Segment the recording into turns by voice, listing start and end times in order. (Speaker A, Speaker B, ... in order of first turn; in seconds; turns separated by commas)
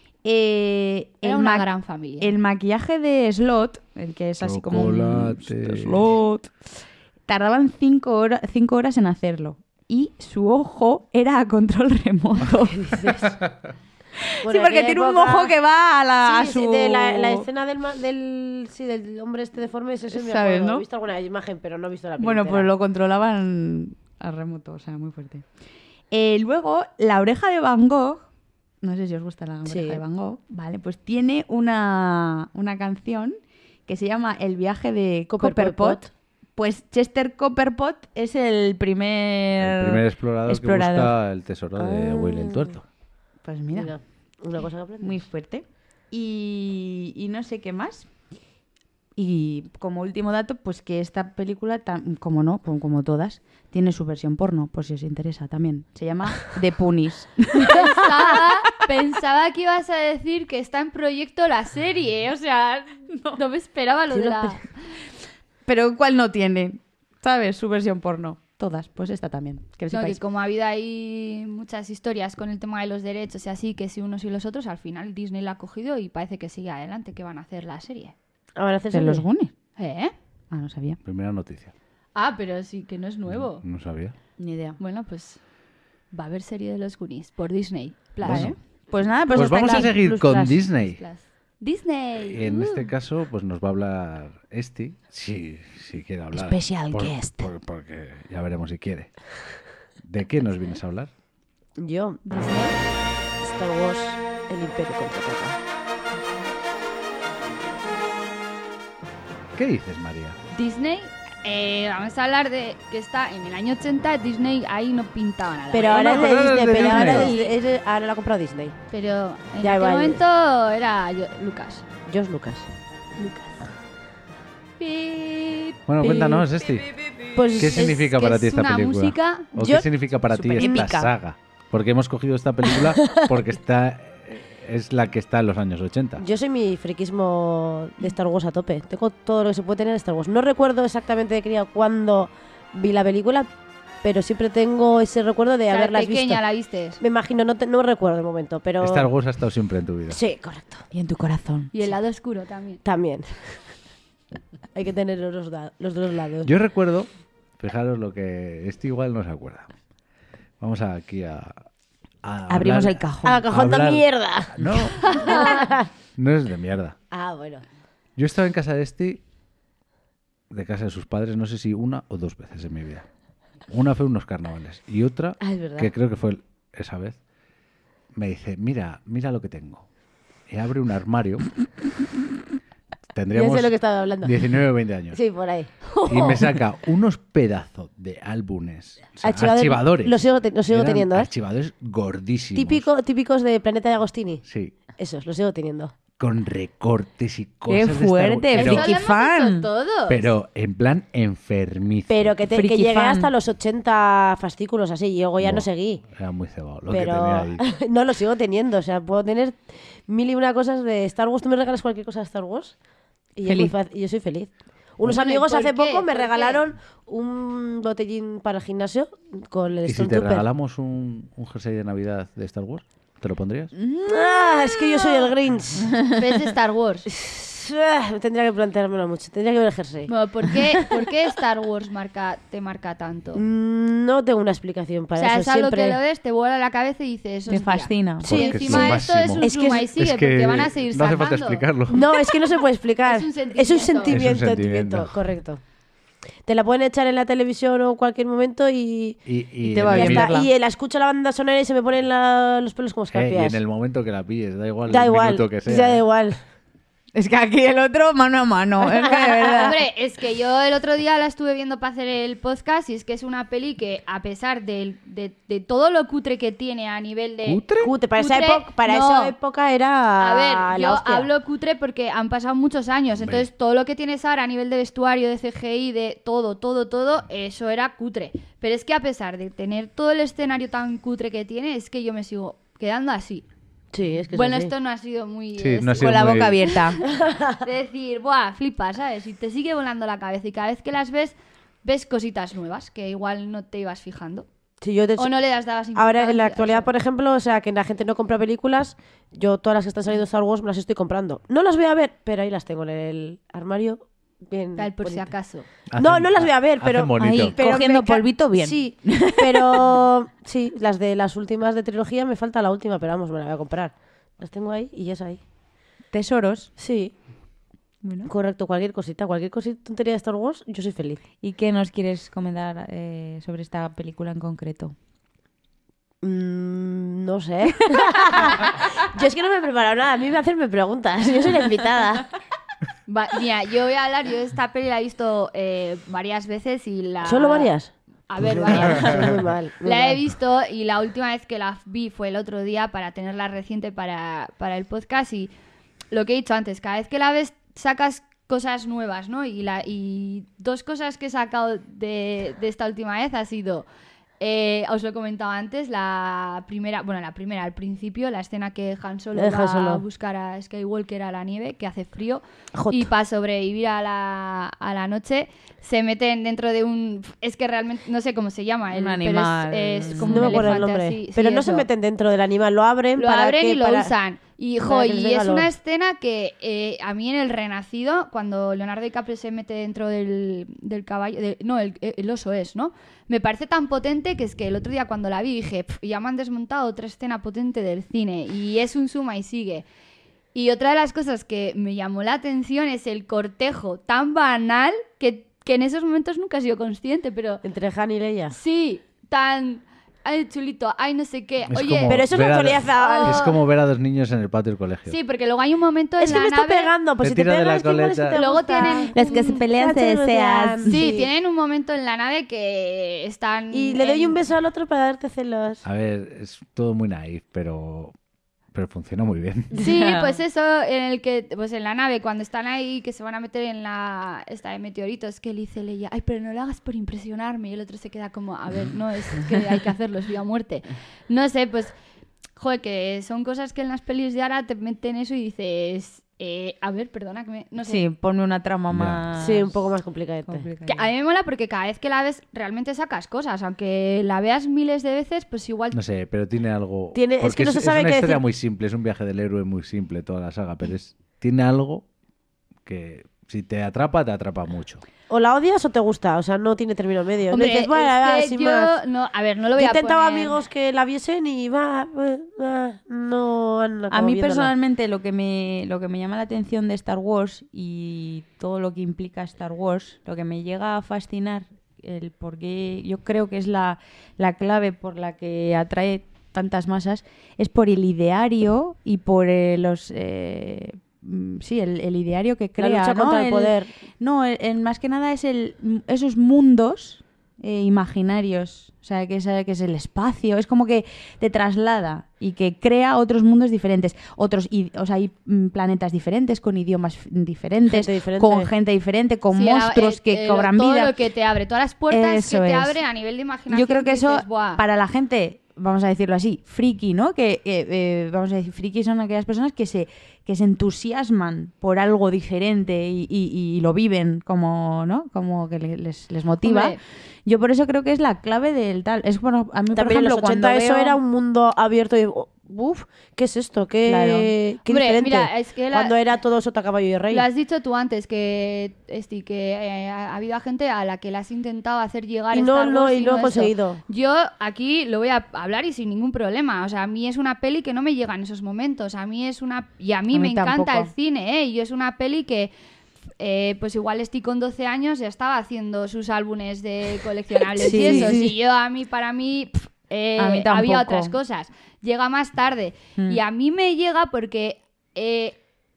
Speaker A: 0.2-1.7, Speaker B: 1.2-2.3, Speaker A: 2.2-6.5, Speaker C: 4.4-6.1, Speaker A: 7.3-13.2, Speaker D: 12.8-13.3, Speaker A: 14.2-17.5, Speaker D: 14.4-15.5, Speaker D: 16.2-22.7, Speaker A: 20.1-20.9, Speaker A: 22.2-25.4, Speaker A: 26.1-28.3, Speaker A: 28.8-36.0, Speaker D: 29.7-30.0, Speaker D: 35.3-36.1, Speaker A: 36.6-41.2, Speaker C: 39.6-42.9, Speaker D: 41.8-42.8, Speaker A: 43.5-43.9, Speaker D: 43.7-45.2, Speaker A: 45.0-48.1, Speaker A: 49.2-58.5, Speaker B: 57.6-64.7, Speaker A: 63.1-63.4, Speaker D: 64.1-64.6, Speaker A: 65.7-70.2, Speaker B: 69.9-78.1, Speaker D: 78.6-79.3, Speaker A: 78.9-79.5, Speaker B: 79.8-80.1, Speaker A: 80.5-81.0, Speaker C: 81.0-81.7, Speaker B: 82.2-83.6, Speaker C: 83.3-84.1, Speaker A: 84.4-84.8, Speaker B: 84.8-85.4, Speaker B: 86.1-88.6, Speaker C: 88.2-88.5, Speaker A: 88.2-90.5, Speaker C: 89.3-91.0, Speaker D: 89.4-90.4, Speaker B: 90.8-92.9, Speaker C: 92.2-99.3, Speaker A: 96.3-97.5, Speaker C: 100.0-101.1, Speaker D: 101.8-102.2, Speaker B: 102.3-102.7, Speaker D: 103.4-105.6, Speaker C: 109.5-110.4, Speaker B: 110.5-117.5, Speaker D: 115.7-118.8, Speaker C: 115.9-117.3, Speaker B: 118.9-121.8, Speaker D: 119.6-120.2, Speaker D: 122.1-122.7, Speaker B: 123.2-123.7, Speaker B: 124.8-125.8, Speaker C: 125.9-126.9, Speaker D: 126.0-126.4, Speaker D: 127.3-128.0, Speaker C: 127.6-136.2, Speaker B: 127.7-129.5, Speaker D: 129.6-129.9, Speaker A: 130.3-131.1, Speaker D: 130.6-130.9, Speaker D: 132.7-133.3, Speaker D: 136.2-143.5, Speaker D: 144.0-146.4, Speaker B: 145.7-147.0, Speaker D: 147.0-149.1, Speaker C: 148.8-150.2, Speaker D: 150.1-150.8, Speaker A: 150.9-151.7, Speaker B: 151.7-152.8, Speaker D: 152.8-153.7, Speaker D: 154.7-156.5, Speaker C: 156.4-159.7, Speaker C: 160.6-161.6, Speaker C: 162.2-165.5, Speaker A: 162.5-163.4, Speaker D: 163.2-165.9, Speaker B: 165.1-165.5, Speaker C: 166.2-167.0, Speaker D: 167.1-167.6, Speaker C: 168.2-169.2, Speaker C: 170.5-173.1, Speaker C: 173.7-177.2, Speaker D: 175.4-175.9, Speaker C: 178.1-179.9, Speaker C: 180.5-181.5, Speaker C: 183.1-185.2, Speaker D: 183.3-184.4, Speaker D: 185.1-185.7, Speaker B: 185.9-186.5, Speaker C: 186.1-192.9, Speaker D: 189.2-191.3, Speaker D: 192.6-195.9, Speaker C: 194.4-194.8, Speaker C: 196.2-198.9, Speaker A: 197.7-199.7, Speaker B: 198.5-200.2, Speaker C: 200.1-202.4, Speaker D: 202.1-206.0, Speaker A: 202.5-203.3, Speaker C: 205.4-207.7, Speaker D: 206.9-212.8, Speaker D: 213.3-220.4, Speaker A: 213.5-213.7, Speaker B: 215.0-216.6, Speaker C: 219.9-223.7, Speaker A: 223.8-225.3, Speaker D: 224.1-226.0, Speaker A: 225.9-226.2, Speaker B: 226.1-227.1, Speaker D: 227.1-230.1, Speaker B: 230.1-233.4, Speaker D: 233.3-236.0, Speaker B: 235.2-241.7, Speaker A: 237.5-238.3, Speaker D: 238.2-239.9, Speaker C: 238.3-242.1, Speaker D: 241.9-245.6, Speaker B: 243.0-244.3, Speaker C: 244.1-245.2, Speaker D: 246.5-249.2, Speaker C: 249.3-250.3, Speaker A: 249.6-250.5, Speaker D: 249.8-253.6, Speaker C: 253.1-256.0, Speaker D: 254.9-256.4, Speaker A: 257.1-259.7, Speaker D: 258.8-259.7, Speaker B: 259.6-269.4, Speaker C: 267.5-267.9, Speaker D: 267.8-271.3, Speaker B: 270.2-283.4, Speaker C: 273.2-273.5, Speaker D: 283.9-284.7, Speaker B: 284.3-287.0, Speaker C: 285.6-286.6, Speaker A: 286.0-287.0, Speaker D: 287.1-287.6, Speaker B: 287.6-294.5, Speaker D: 294.8-295.3, Speaker B: 295.2-296.9, Speaker D: 296.0-305.3, Speaker B: 304.8-305.7, Speaker C: 305.9-307.6, Speaker D: 306.0-315.4, Speaker A: 307.2-310.0, Speaker A: 316.1-316.7, Speaker D: 316.8-317.1, Speaker A: 318.0-318.3, Speaker D: 318.3-321.2, Speaker A: 321.4-324.9, Speaker D: 326.2-332.3, Speaker B: 333.1-337.7, Speaker D: 337.2-340.2, Speaker B: 338.3-345.5, Speaker C: 338.6-339.4, Speaker B: 346.1-353.9, Speaker B: 354.4-371.9, Speaker D: 359.4-360.0, Speaker D: 362.8-363.1, Speaker A: 368.9-370.8, Speaker D: 370.2-374.1, Speaker B: 373.2-389.9, Speaker D: 374.8-375.7, Speaker B: 390.5-397.6, Speaker D: 397.6-398.6, Speaker B: 398.5-402.3, Speaker C: 401.7-405.2, Speaker D: 402.1-403.4, Speaker B: 402.9-403.6, Speaker B: 405.1-406.9, Speaker D: 406.2-411.3, Speaker C: 407.2-408.4, Speaker B: 408.3-409.6, Speaker A: 409.1-411.1, Speaker B: 410.9-414.4, Speaker D: 413.7-415.8, Speaker C: 415.8-418.1, Speaker C: 418.7-419.8, Speaker A: 419.7-420.3, Speaker B: 419.8-431.9, Speaker B: 432.6-438.1, Speaker A: 437.8-439.8, Speaker C: 438.9-439.2, Speaker D: 439.4-440.7, Speaker A: 440.5-441.1, Speaker B: 440.9-446.0, Speaker C: 445.9-452.1, Speaker D: 447.1-448.4, Speaker C: 452.9-455.0, Speaker D: 455.3-458.9, Speaker B: 457.5-460.6, Speaker D: 459.8-464.7, Speaker A: 464.1-501.1, Speaker D: 482.8-483.9, Speaker D: 497.9-498.7, Speaker B: 499.5-504.8, Speaker A: 502.1-503.0, Speaker A: 503.7-521.2, Speaker B: 516.6-517.0, Speaker D: 519.9-527.5, Speaker A: 524.0-524.5, Speaker B: 524.9-526.2, Speaker B: 527.3-542.7, Speaker D: 532.5-534.0, Speaker A: 540.3-541.1, Speaker B: 543.4-555.6, Speaker A: 547.8-548.5, Speaker D: 547.9-548.3, Speaker A: 550.4-551.4